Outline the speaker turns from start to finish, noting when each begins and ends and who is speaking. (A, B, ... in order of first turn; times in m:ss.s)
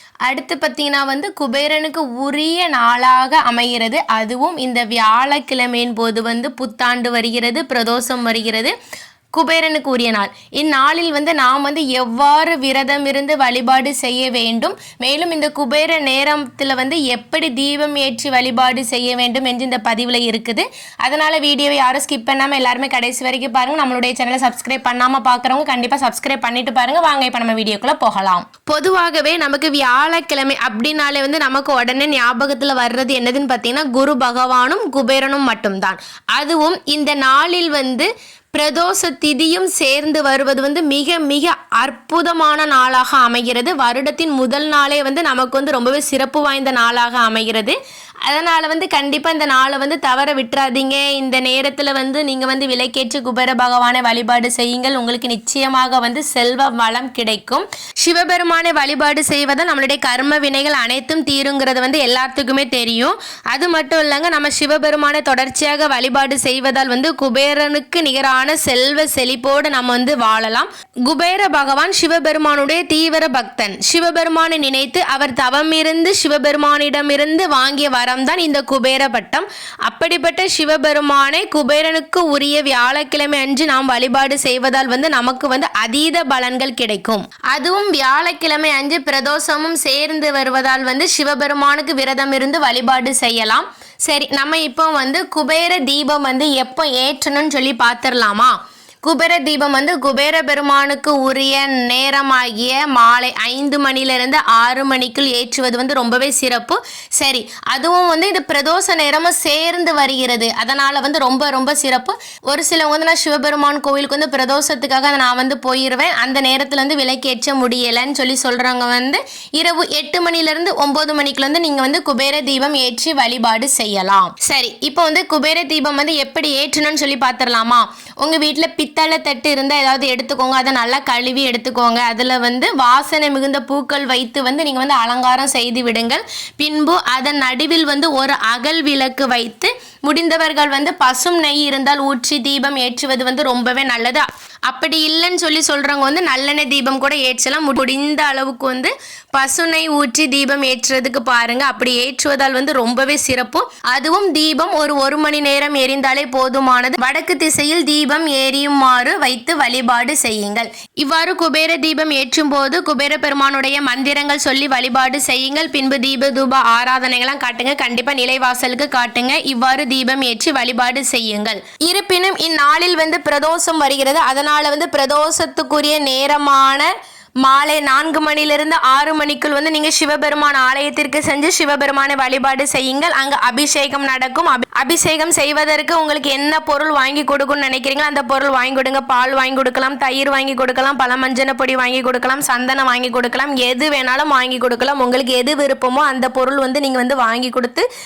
0:00.3-0:08.7 A
0:09.3-2:56.9 A
2:57.4-3:17.8 A